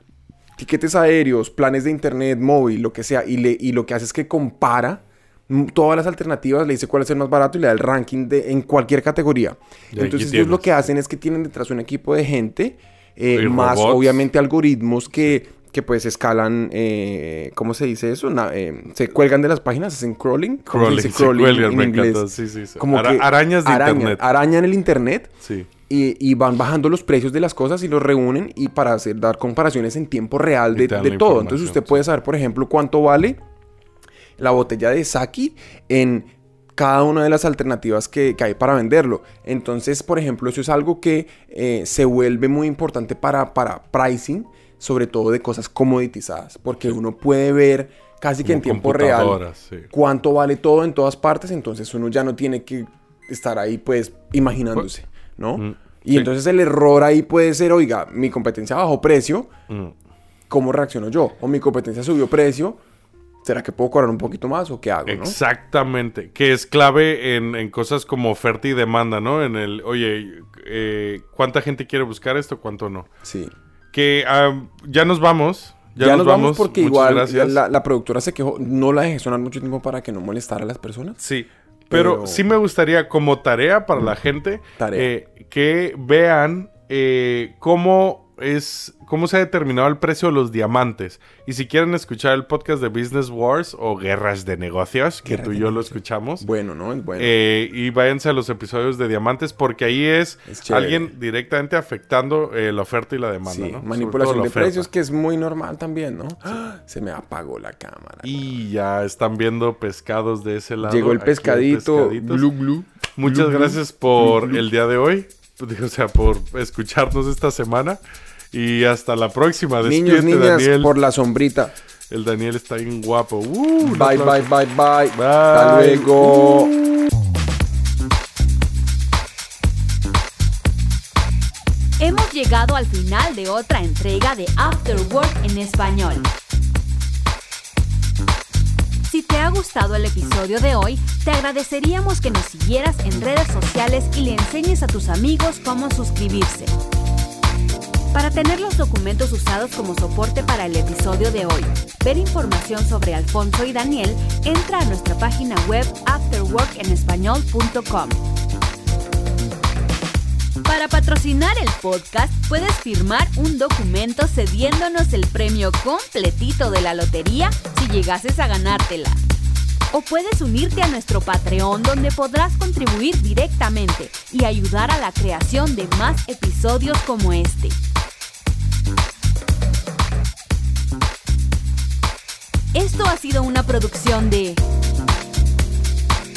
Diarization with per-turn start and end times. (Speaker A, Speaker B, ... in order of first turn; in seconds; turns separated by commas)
Speaker A: 0.6-25.3, Speaker B: 9.9-10.8, Speaker B: 13.3-14.2, Speaker B: 20.7-24.2, Speaker B: 25.4-25.7, Speaker A: 25.9-33.4, Speaker B: 30.7-32.0, Speaker A: 34.4-59.5, Speaker B: 48.4-49.9, Speaker B: 55.6-56.3, Speaker B: 59.7-59.9, Speaker A: 60.5-62.8, Speaker A: 63.4-65.4, Speaker B: 65.0-73.1, Speaker A: 73.2-73.5, Speaker B: 73.9-77.6, Speaker A: 76.0-81.2, Speaker B: 81.2-96.5, Speaker A: 81.9-82.4, Speaker A: 84.8-85.1, Speaker A: 95.2-97.3, Speaker B: 97.2-104.9, Speaker A: 100.5-101.1, Speaker A: 103.5-108.4, Speaker B: 108.2-112.5, Speaker A: 110.8-114.6, Speaker B: 113.2-118.0, Speaker B: 118.5-120.9, Speaker A: 119.8-121.7, Speaker B: 122.1-124.5, Speaker A: 123.8-126.7, Speaker B: 125.1-126.9, Speaker C: 132.0-136.3, Speaker C: 139.1-146.7, Speaker C: 148.1-158.2, Speaker C: 160.6-169.2, Speaker C: 169.9-177.8, Speaker C: 182.7-184.6